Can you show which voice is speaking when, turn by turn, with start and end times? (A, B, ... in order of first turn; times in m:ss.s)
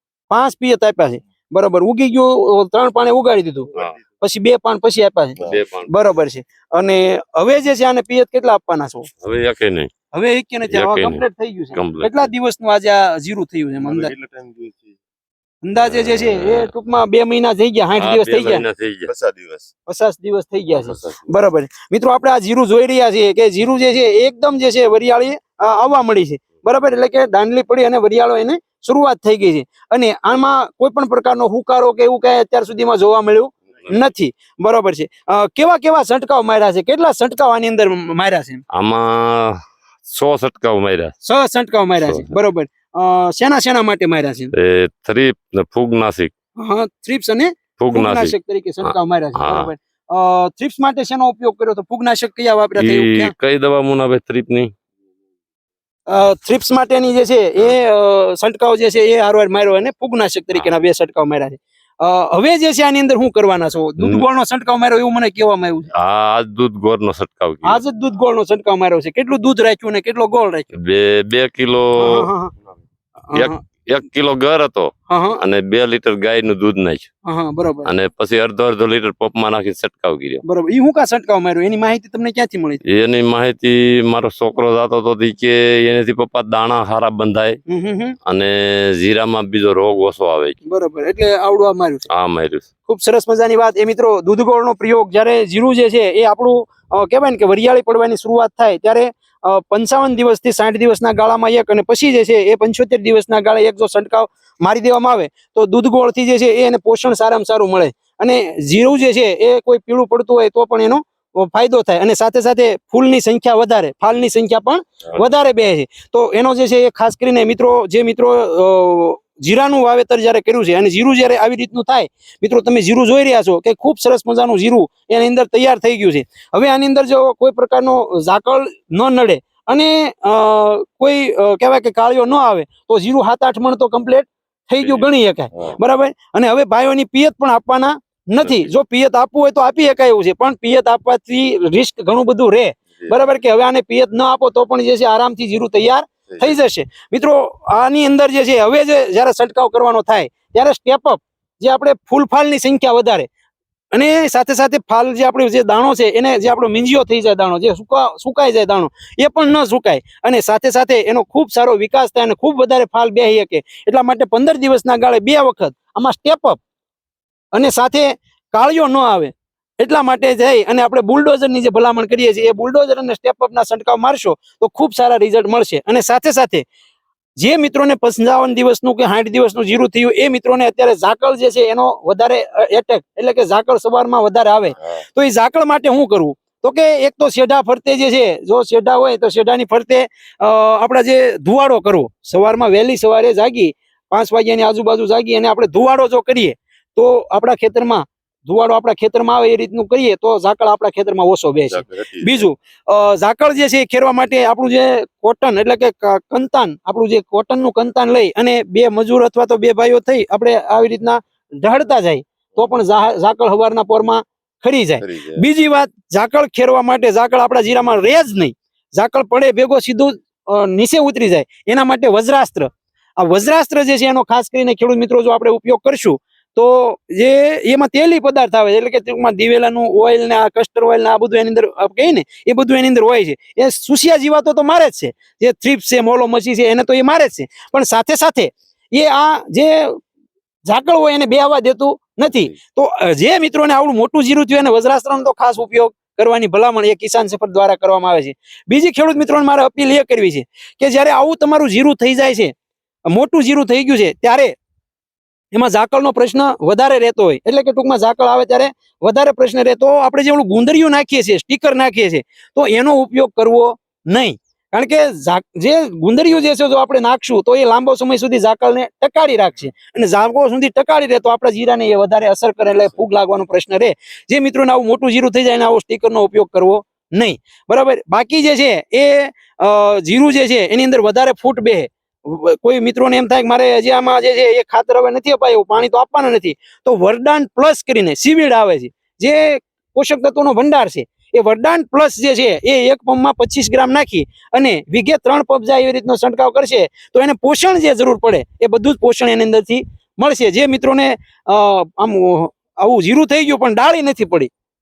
0:00.3-0:09.1 A
0:05.4-0:05.9 B
0:09.2-0:09.9 B
0:10.1-0:14.1 A
0:10.7-0:11.2 B
0:11.7-0:12.3 B
0:13.8-0:15.0 C
0:15.6-0:18.6 A
0:15.8-0:16.7 B
0:18.0-0:19.1 B
0:19.0-0:19.7 C
0:19.9-0:38.6 A
0:20.7-0:21.3 B
0:38.7-0:41.1 B
0:41.2-0:44.5 A
0:42.0-0:42.3 B
0:44.5-0:46.3 B
0:46.6-0:53.3 A
0:47.8-0:49.7 B
0:52.8-0:54.7 B
0:56.1-1:05.9 A
1:06.0-1:07.8 B
1:07.6-1:10.7 A
1:10.7-1:12.3 B
1:12.0-1:12.5 A
1:13.3-1:13.6 A
1:13.3-1:17.1 B
1:15.1-1:15.4 A
1:17.2-1:17.9 A
1:17.8-1:20.4 B
1:20.4-1:22.8 A
1:22.8-1:27.6 B
1:27.7-1:28.2 A
1:28.2-1:30.6 B
1:30.6-1:32.0 A
1:32.1-1:32.6 B
1:32.9-2:33.3 A
2:26.3-2:26.5 C
2:33.9-2:46.6 A
2:47.5-2:56.6 A
2:57.4-4:00.0 A
4:00.6-4:12.5 A
4:13.1-4:14.5 A
4:15.5-5:04.5 A